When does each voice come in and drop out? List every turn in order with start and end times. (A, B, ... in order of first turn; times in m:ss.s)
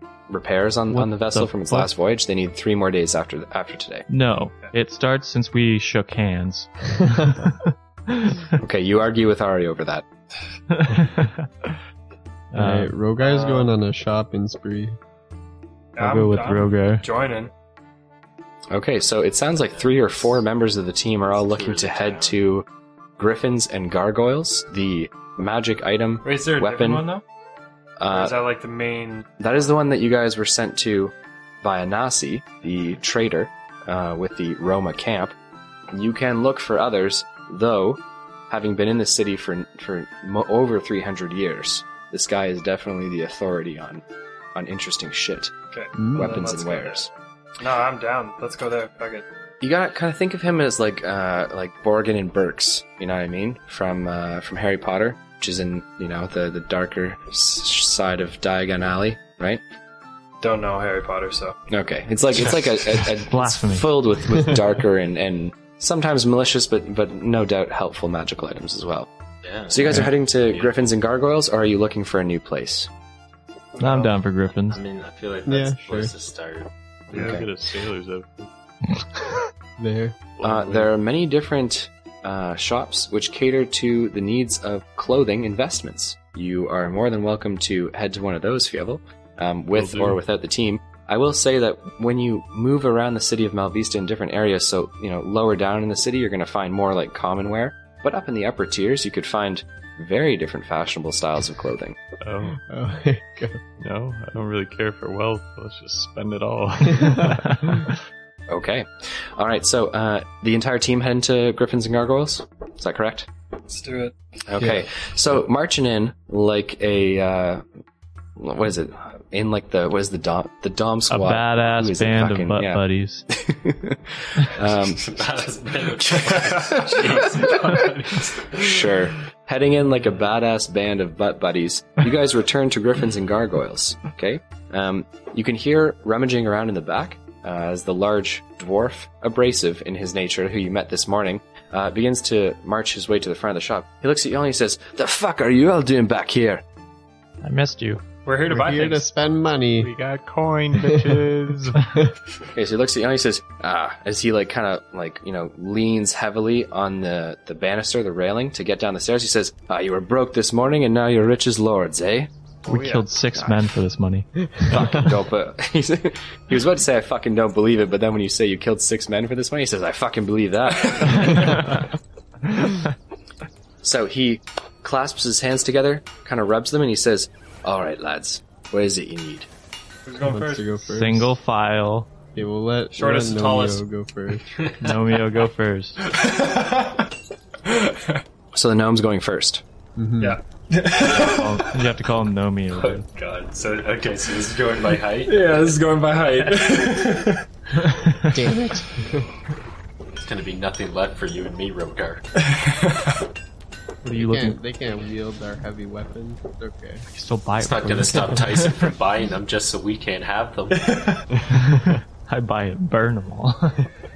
0:00.3-0:04.1 A
0:00.9-0:01.9 B
0:04.1-0:08.5 B
0:08.6-0:10.0 A
0:10.7-0:11.5 B
0:12.5-0:12.9 B
0:12.6-0:15.0 C
0:13.2-0:13.7 D
0:16.0-0:17.5 D
0:16.0-0:17.0 B
0:18.7-0:22.7 A
0:19.7-0:20.4 E
0:21.3-0:22.4 E
0:23.2-0:27.1 A
0:26.2-0:27.2 D
0:28.0-0:28.4 A
0:28.1-0:29.3 D
0:29.4-0:35.4 A
0:35.9-0:44.0 A
0:44.6-0:45.5 A
0:45.7-0:47.1 D
0:46.0-0:46.3 C
0:46.2-0:47.1 A
0:47.6-0:49.2 D
0:49.6-0:59.6 A
1:00.4-1:01.6 D
1:01.7-1:09.1 A
1:03.2-1:03.9 B
1:09.4-1:10.8 E
1:09.7-1:12.9 A
1:13.8-1:14.1 D
1:13.8-1:14.8 B
1:14.7-1:16.7 E
1:15.5-1:16.1 C
1:17.1-1:17.4 D
1:17.1-1:18.5 F
1:17.1-1:17.5 A
1:19.8-1:20.3 C
1:20.4-1:20.9 F
1:20.4-1:42.0 A
1:29.8-1:30.2 F
1:42.2-1:42.6 F
1:42.6-1:43.6 C
1:43.8-1:48.0 F
1:47.0-1:47.2 C
1:48.5-1:53.3 A
1:53.7-1:54.2 D
1:54.5-1:57.6 A
1:58.4-2:05.4 A
2:01.1-2:03.3 B
2:04.7-2:08.7 E
2:06.2-2:08.2 D
2:08.5-2:26.6 A
2:27.4-2:28.0 B
2:28.3-2:29.1 D
2:28.5-2:30.0 C
2:29.8-2:31.9 F
2:30.8-2:31.5 C
2:32.5-2:42.3 A
2:42.7-2:43.1 D
2:42.7-2:44.3 B
2:43.3-2:43.6 A
2:44.7-2:51.8 A
2:51.2-2:51.7 B
2:53.8-2:59.5 A
3:00.1-3:00.7 D
3:00.2-3:01.3 C
3:00.9-3:02.1 B
3:02.4-3:05.0 C
3:02.9-3:03.8 D
3:04.8-3:06.0 B
3:06.1-3:07.0 D
3:07.6-3:08.2 D
3:08.5-3:09.6 A
3:10.0-3:10.4 C
3:10.2-3:11.8 D
3:11.0-3:13.1 B
3:12.7-3:15.8 E
3:15.3-3:17.4 D
3:18.3-3:19.3 C
3:20.2-3:22.2 E
3:22.5-3:23.2 D
3:24.0-3:24.6 B
3:24.1-3:27.0 C
3:27.1-3:28.9 B
3:27.6-3:31.0 E
3:30.9-3:31.2 D
3:31.5-3:33.9 B
3:31.5-3:31.9 F